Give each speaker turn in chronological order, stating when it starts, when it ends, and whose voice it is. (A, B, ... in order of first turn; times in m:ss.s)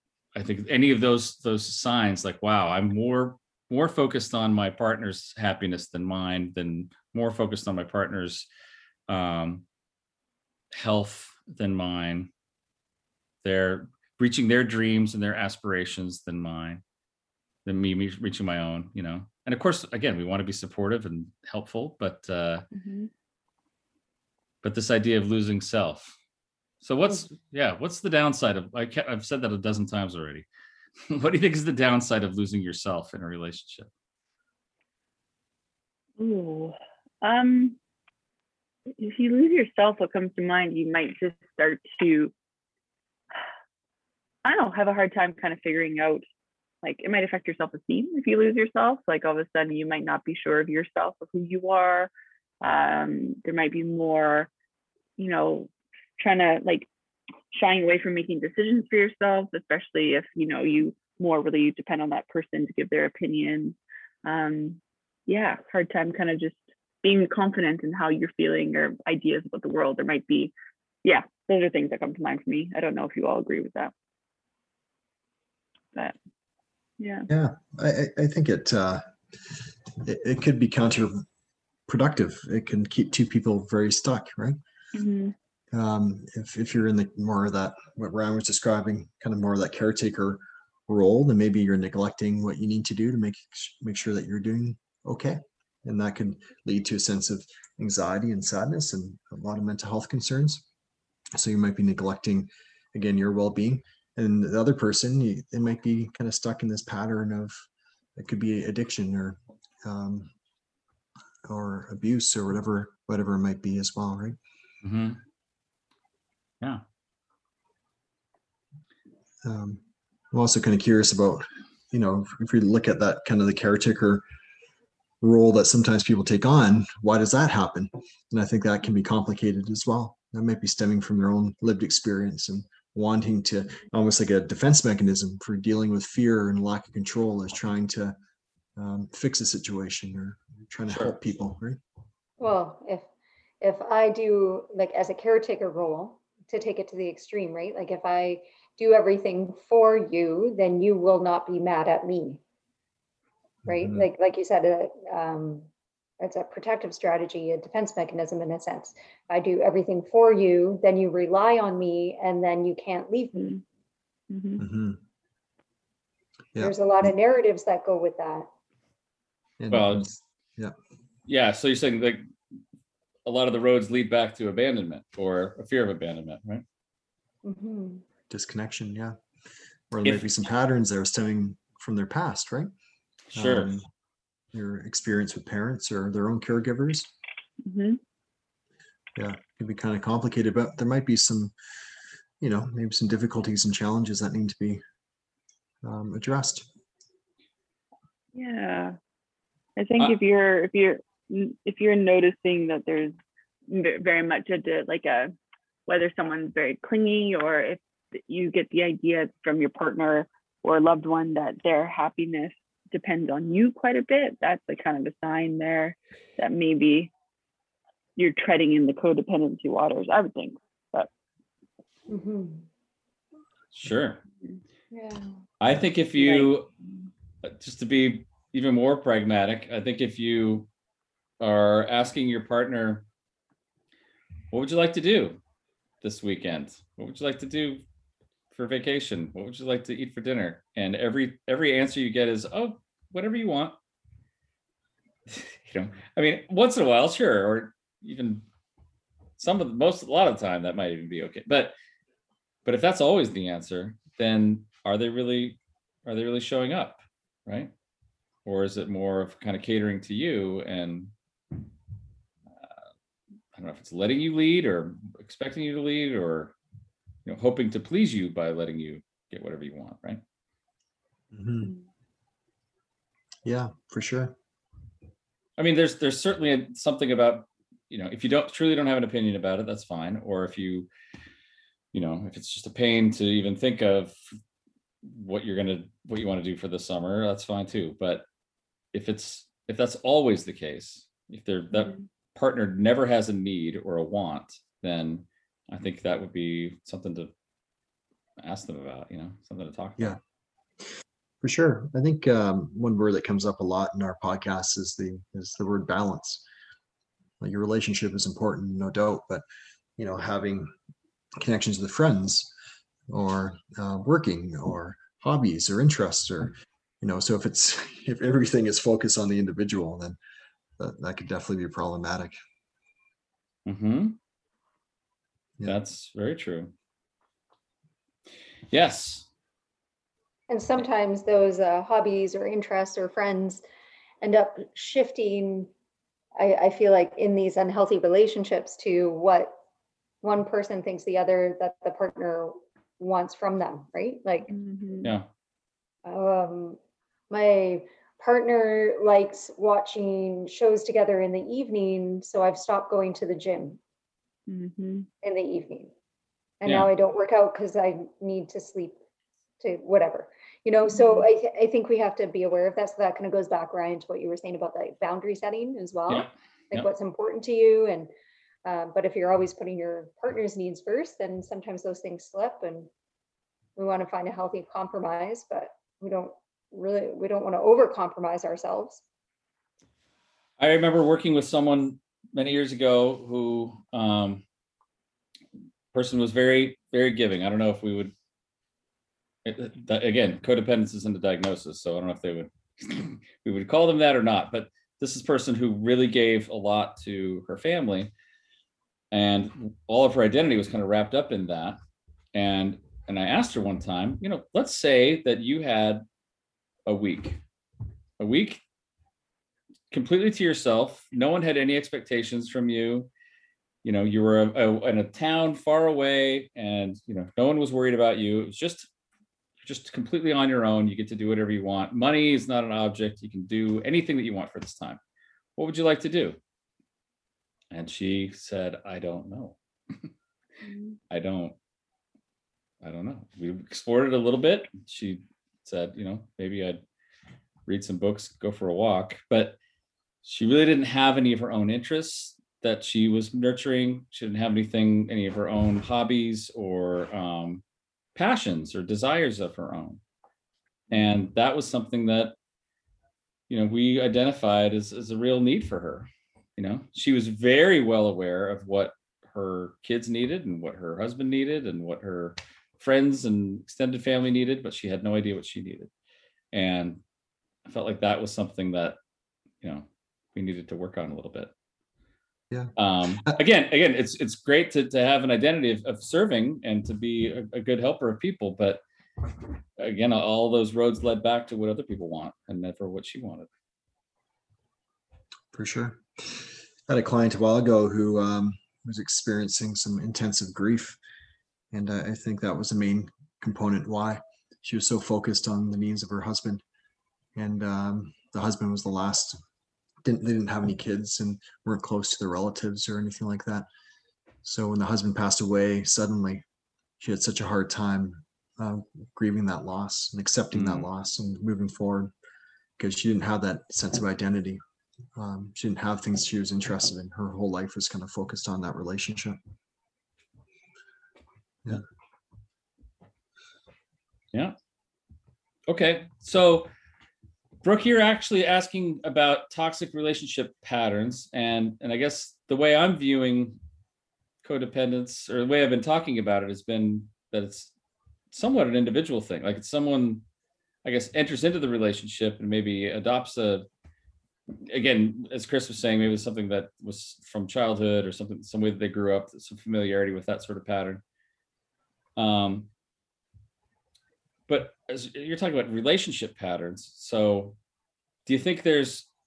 0:00.3-0:08.5 A
0:09.1-0:09.6 A
0:10.7-0:12.3 A
0:13.4-0:16.8 A
0:17.6-0:22.7 A
0:22.7-0:23.1 B
0:24.6-0:26.2 A
0:26.8-0:30.5 A
0:31.1-0:33.9 A
0:36.2-0:37.8 B
0:39.0-0:42.3 B
0:44.4-0:46.2 B
0:46.8-0:52.1 B
0:52.6-0:54.5 B
0:55.2-0:56.9 B
0:57.5-1:10.5 B
1:11.0-1:13.9 B
1:17.0-1:17.3 B
1:17.3-1:21.2 C
1:21.9-1:24.6 C
1:24.9-1:25.4 B
1:25.7-1:40.6 C
1:41.3-1:47.6 C
1:48.2-1:50.3 C
1:51.4-1:54.4 C
1:54.8-1:55.2 A
1:59.4-1:59.8 C
2:00.3-2:04.2 C
2:05.2-2:18.2 C
2:18.8-2:21.8 C
2:20.9-2:21.2 A
2:22.4-2:23.1 D
2:23.6-2:32.4 D
2:33.6-2:34.1 C
2:33.7-2:35.7 D
2:36.2-2:43.5 D
2:43.4-2:43.6 B
2:44.3-2:44.6 B
2:44.6-2:45.0 C
2:46.5-2:47.1 C
2:46.6-2:48.5 D
2:49.6-2:50.8 C
2:49.7-2:50.1 A
2:51.3-2:52.2 A
2:53.2-2:56.6 A
2:57.4-2:58.0 D
2:58.3-2:59.2 C
2:59.9-3:02.7 C
3:03.3-3:03.7 A
3:03.4-3:03.9 C
3:04.5-3:07.1 C
3:07.6-3:08.0 B
3:09.2-3:11.5 C
3:12.4-3:14.8 C
3:15.8-3:16.7 C
3:18.3-3:19.0 B
3:19.8-3:23.1 B
3:23.7-3:25.3 B
3:25.9-3:37.1 B
3:38.2-3:41.1 B
3:42.1-3:42.7 D
3:43.7-3:44.2 A
3:44.9-3:45.3 D
3:45.6-3:46.7 A
3:46.2-3:46.5 B
3:47.4-3:50.7 A
3:51.4-3:53.0 A
3:54.5-3:55.4 A
3:56.0-3:57.8 A
3:58.5-4:03.8 A
4:05.3-4:08.4 A
4:09.4-4:11.7 A
4:12.7-4:17.7 A
4:18.4-4:21.1 A
4:23.6-4:26.6 A
4:27.2-4:30.2 A
4:31.3-4:31.8 C
4:33.4-4:34.4 C
4:35.6-4:40.9 A
4:41.9-4:44.2 A
4:45.0-4:48.2 A
4:48.9-4:57.3 A
4:51.7-4:52.0 B
4:58.4-5:00.2 A
5:01.4-5:06.4 C
5:07.4-5:09.4 C
5:10.0-5:10.7 C
5:11.4-5:12.5 C
5:13.1-5:20.2 C
5:20.8-5:22.3 C
5:23.6-5:24.2 A
5:25.6-5:26.7 A
5:28.7-5:29.3 A
5:30.5-5:33.6 D
5:34.2-5:35.7 D
5:36.4-5:39.6 D
5:40.2-5:44.5 D
5:44.5-5:45.1 B
5:45.0-5:45.3 A
5:46.0-5:46.8 D
5:47.3-5:53.8 D
5:54.5-5:55.1 B
5:55.2-5:55.9 D
5:56.6-5:59.0 D
5:59.6-6:08.1 D
6:00.9-6:01.2 B
6:06.1-6:06.9 A
6:08.6-6:12.9 D
6:13.8-6:19.0 D
6:20.6-6:24.4 A
6:25.9-6:28.1 A
6:29.4-6:38.1 A
6:39.1-6:41.8 A
6:42.3-6:46.0 A
6:46.9-6:47.4 A
6:48.2-6:48.6 A
6:49.9-6:53.1 A
6:53.8-6:58.9 A
6:59.6-7:05.0 A
7:05.6-7:06.4 A
7:07.7-7:10.1 A
7:10.6-7:11.0 B
7:11.1-7:11.6 A
7:12.8-7:16.8 A
7:17.7-7:19.6 A
7:20.2-7:27.6 A
7:28.2-7:30.0 A
7:30.9-7:32.3 A
7:33.5-7:45.9 A
7:46.5-7:47.0 A
7:47.7-7:49.0 A
7:49.6-7:51.5 A
7:52.5-7:53.4 C
7:52.8-7:58.8 A
7:59.8-8:03.5 A
8:05.5-8:11.0 C
8:11.7-8:16.6 C
8:17.4-8:19.4 C
8:20.0-8:23.7 C
8:24.4-8:26.4 C
8:27.0-8:32.1 C
8:30.5-8:30.9 A
8:32.8-8:34.6 C
8:35.2-8:39.4 C
8:45.7-8:46.7 A
8:47.6-8:53.6 A
8:54.4-8:57.7 A
8:58.3-9:00.2 A
9:00.8-9:03.7 A
9:04.6-9:11.0 A
9:12.2-9:12.7 A
9:14.5-9:17.6 A
9:18.3-9:19.1 A